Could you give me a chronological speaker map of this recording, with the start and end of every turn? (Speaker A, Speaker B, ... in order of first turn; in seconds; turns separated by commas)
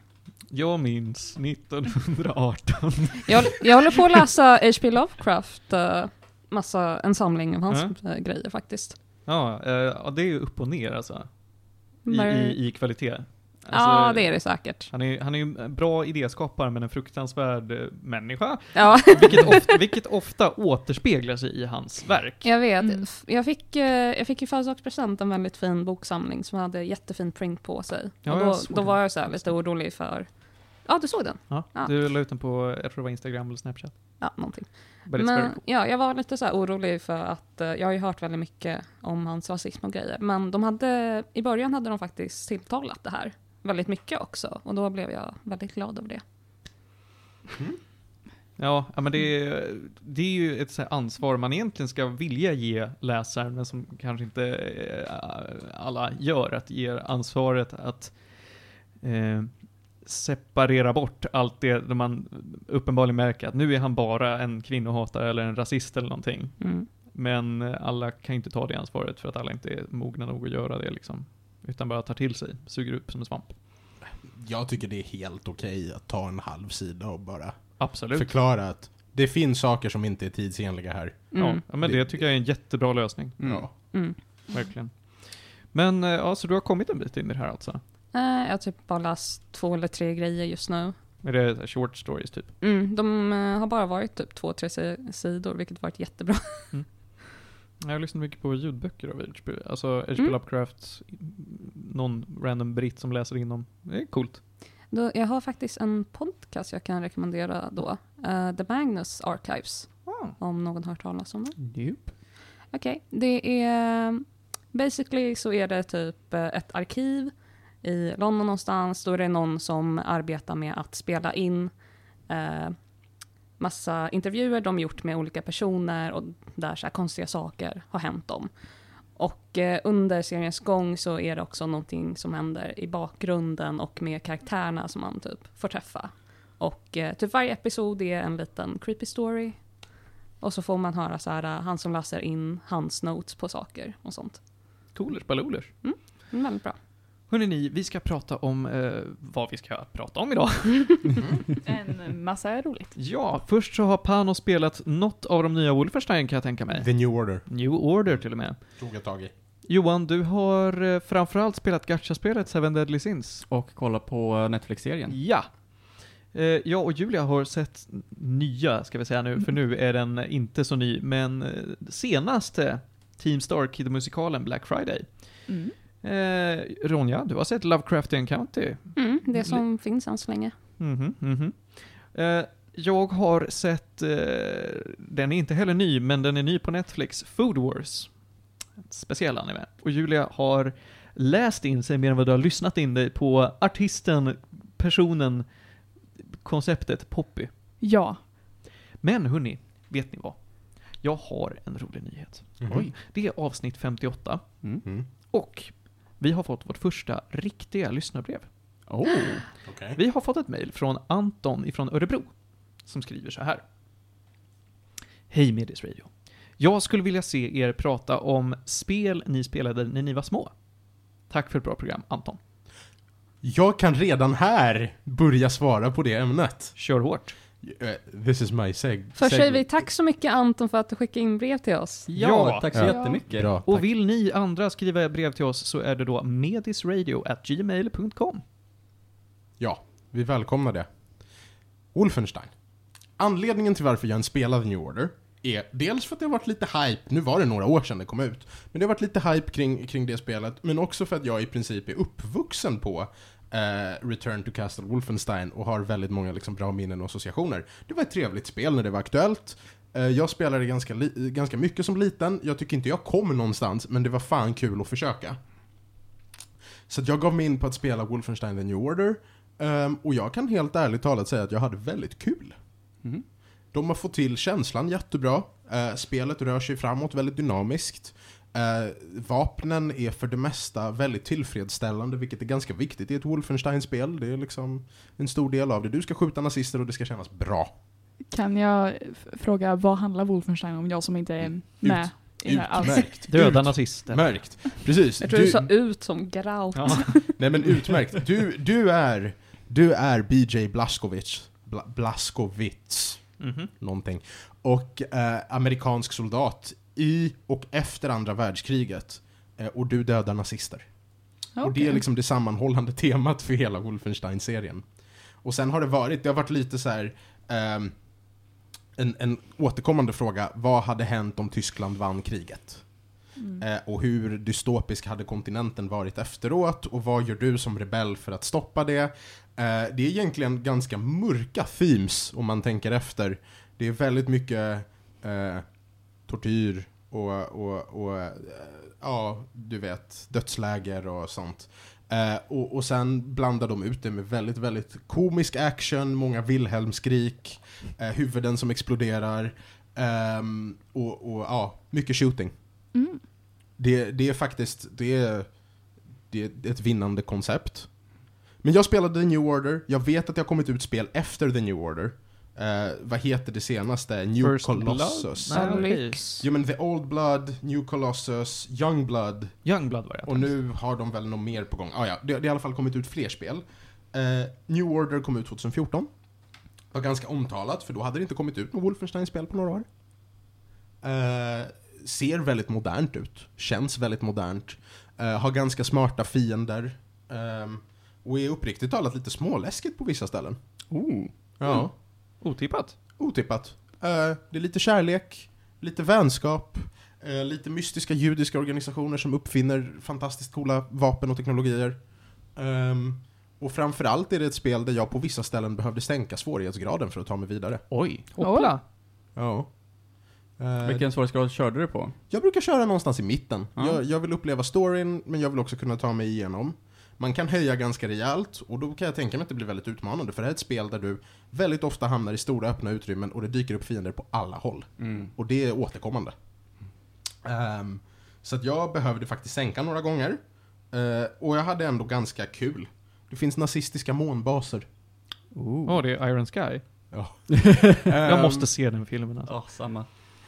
Speaker A: 0.5-3.6, Speaker B: 3.3-9.0, Speaker A: 7.7-7.9, Speaker A: 9.2-22.5, Speaker B: 12.1-12.6, Speaker B: 13.7-14.9, Speaker B: 18.7-19.7, Speaker B: 22.4-31.9, Speaker C: 22.8-23.1, Speaker A: 28.2-29.6, Speaker A: 31.5-34.4, Speaker B: 34.2-46.2, Speaker A: 35.1-35.6, Speaker A: 48.5-73.6, Speaker B: 66.6-66.9, Speaker D: 74.1-82.3, Speaker A: 77.8-78.3, Speaker B: 81.3-81.6, Speaker A: 81.4-87.8, Speaker E: 83.4-83.8, Speaker D: 83.4-83.7, Speaker B: 83.8-84.6, Speaker B: 88.1-91.0, Speaker A: 91.2-92.5, Speaker B: 92.6-97.1, Speaker A: 96.7-104.4, Speaker B: 104.8-111.5, Speaker A: 110.0-110.3, Speaker E: 111.6-112.2, Speaker B: 112.5-144.9, Speaker A: 144.9-146.1, Speaker B: 145.4-146.8, Speaker A: 147.3-151.2, Speaker C: 151.6-153.0, Speaker A: 152.9-163.4, Speaker D: 156.7-159.3, Speaker E: 163.5-165.3, Speaker A: 165.1-179.6, Speaker C: 175.5-175.8, Speaker B: 178.9-180.5, Speaker A: 180.8-197.5, Speaker C: 197.8-198.3, Speaker A: 199.0-208.7, Speaker D: 202.6-202.9, Speaker E: 202.6-202.9, Speaker E: 204.6-204.9, Speaker E: 208.9-209.6, Speaker D: 209.6-210.0, Speaker A: 209.9-213.6, Speaker A: 215.3-222.4, Speaker D: 223.4-226.8, Speaker A: 226.7-227.4, Speaker D: 227.6-229.8, Speaker B: 229.2-232.1, Speaker E: 232.1-233.6, Speaker A: 232.1-238.4, Speaker D: 232.7-233.9, Speaker C: 232.9-233.2, Speaker B: 232.9-233.2, Speaker D: 239.6-265.5, Speaker D: 266.9-272.8, Speaker D: 273.7-287.7, Speaker C: 288.3-293.1, Speaker D: 291.4-295.6, Speaker A: 293.3-294.4, Speaker B: 295.2-297.3, Speaker A: 296.7-297.5, Speaker D: 297.4-352.9, Speaker A: 303.4-303.7, Speaker C: 311.5-312.0, Speaker C: 323.4-323.6, Speaker C: 352.9-353.2, Speaker D: 353.8-380.4, Speaker A: 364.4-366.4, Speaker B: 365.5-366.4, Speaker A: 369.6-370.6, Speaker D: 381.0-391.0, Speaker E: 390.9-391.8, Speaker D: 391.6-392.4, Speaker A: 391.9-393.0, Speaker D: 393.2-407.9, Speaker E: 407.9-408.3, Speaker A: 408.3-408.8, Speaker C: 408.4-408.7, Speaker D: 409.3-411.1, Speaker E: 410.8-412.2, Speaker D: 412.3-426.3, Speaker E: 413.8-414.0, Speaker E: 425.0-425.3, Speaker D: 427.4-435.0, Speaker E: 435.5-436.1, Speaker A: 435.8-437.1, Speaker D: 437.1-438.7, Speaker E: 437.7-438.1, Speaker A: 438.2-439.5, Speaker E: 439.5-440.2